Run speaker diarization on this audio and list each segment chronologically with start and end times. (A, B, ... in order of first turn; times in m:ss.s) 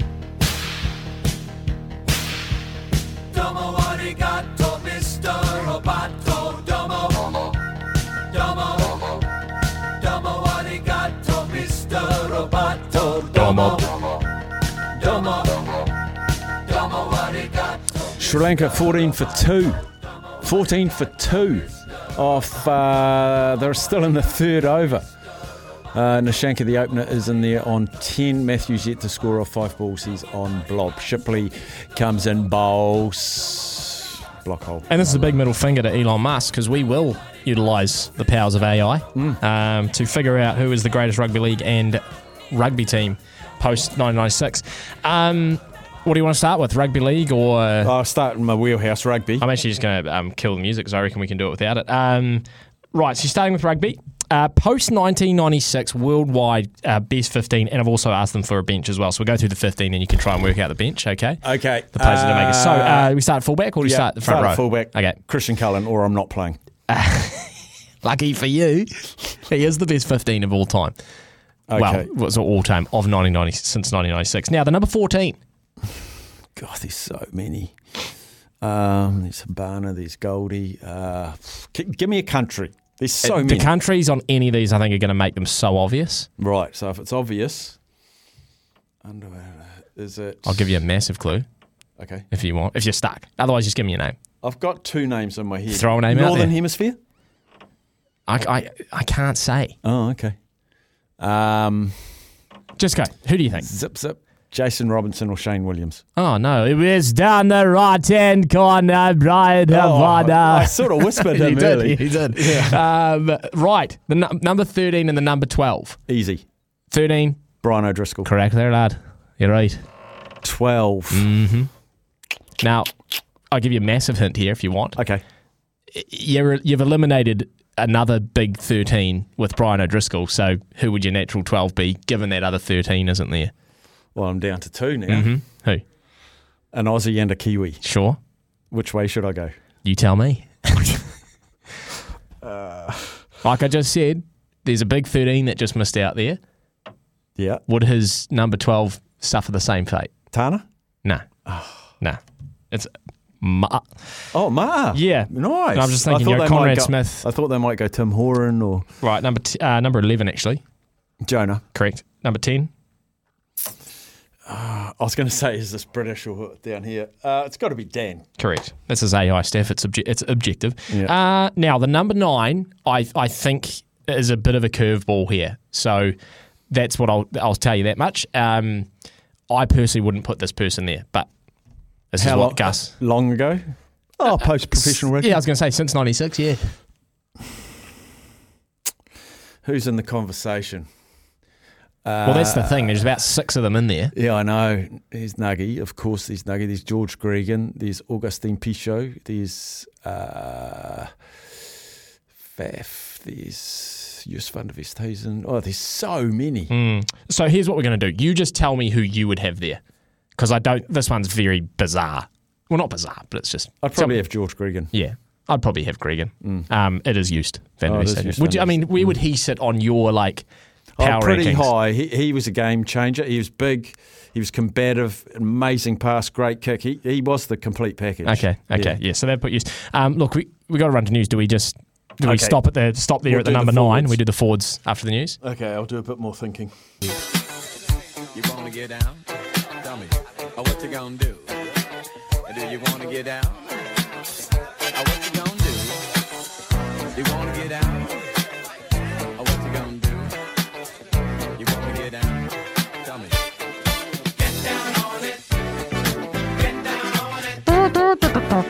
0:03.7-0:06.8 A
0:10.6-0:14.0 A
0:18.1-0:19.8 B
0:20.4-0:25.0 B
0:25.9-0:35.4 B
0:34.9-0:47.9 A
0:39.2-0:39.4 B
0:47.8-0:49.4 B
0:49.4-1:01.4 A
1:01.4-1:03.1 B
1:01.9-1:05.2 A
1:03.8-1:06.6 B
1:06.9-1:11.0 A
1:11.7-1:12.1 B
1:11.8-1:15.4 A
1:16.6-1:17.8 B
1:18.6-1:23.7 B
1:23.2-1:26.3 A
1:26.4-1:27.8 B
1:29.0-1:30.6 B
1:30.5-1:31.4 A
1:32.0-1:32.3 B
1:32.3-1:34.2 A
1:34.4-1:37.0 B
1:35.7-1:36.5 A
1:38.3-1:39.8 A
1:39.8-1:40.4 B
1:41.2-1:42.0 B
1:42.8-1:43.7 A
1:43.6-1:46.0 B
1:46.2-1:56.0 A
1:49.7-1:52.8 B
1:56.1-1:56.4 B
1:56.9-1:57.4 A
1:57.6-1:58.3 B
1:58.2-1:59.8 A
2:00.4-2:01.3 B
2:01.1-2:01.7 A
2:02.6-2:02.9 A
2:03.5-2:05.0 A
2:05.0-2:05.2 B
2:05.9-2:13.5 A
2:14.2-2:15.3 B
2:15.1-2:15.8 A
2:16.7-2:17.8 B
2:17.8-2:18.2 A
2:18.7-2:19.5 B
2:19.8-2:21.1 A
2:22.4-2:23.2 B
2:23.4-2:26.4 A
2:27.4-2:27.6 B
2:27.7-2:30.1 A
2:30.3-2:30.6 B
2:31.5-2:31.7 B
2:32.7-2:34.0 A
2:34.3-2:38.9 B
2:34.9-2:37.2 A
2:39.0-2:40.6 A
2:41.2-2:41.6 B
2:41.7-2:42.7 A
2:44.5-2:48.2 B
2:48.4-2:56.2 A
2:56.7-2:58.9 A
2:59.5-3:01.3 A
3:02.1-3:03.0 A
3:02.2-3:05.4 B
3:04.7-3:06.8 A
3:09.6-3:10.9 B
3:12.0-3:13.1 B
3:12.2-3:14.1 A
3:14.1-3:21.1 B
3:22.6-3:26.7 B
3:26.7-3:29.8 A
3:30.4-3:34.2 A
3:33.8-3:34.9 B
3:34.9-3:40.5 A
3:37.9-3:39.1 B
3:41.0-3:49.0 B
3:41.0-3:41.7 A
3:48.3-3:55.4 A
3:52.2-3:52.6 B
3:53.2-3:54.2 B
3:55.4-3:56.7 B
3:58.3-3:59.3 C
3:59.8-4:01.6 C
4:02.5-4:03.7 C
4:04.9-4:06.1 C
4:07.2-4:08.3 C
4:09.4-4:10.4 C
4:11.6-4:12.5 C
4:13.0-4:13.4 C
4:17.9-4:18.3 A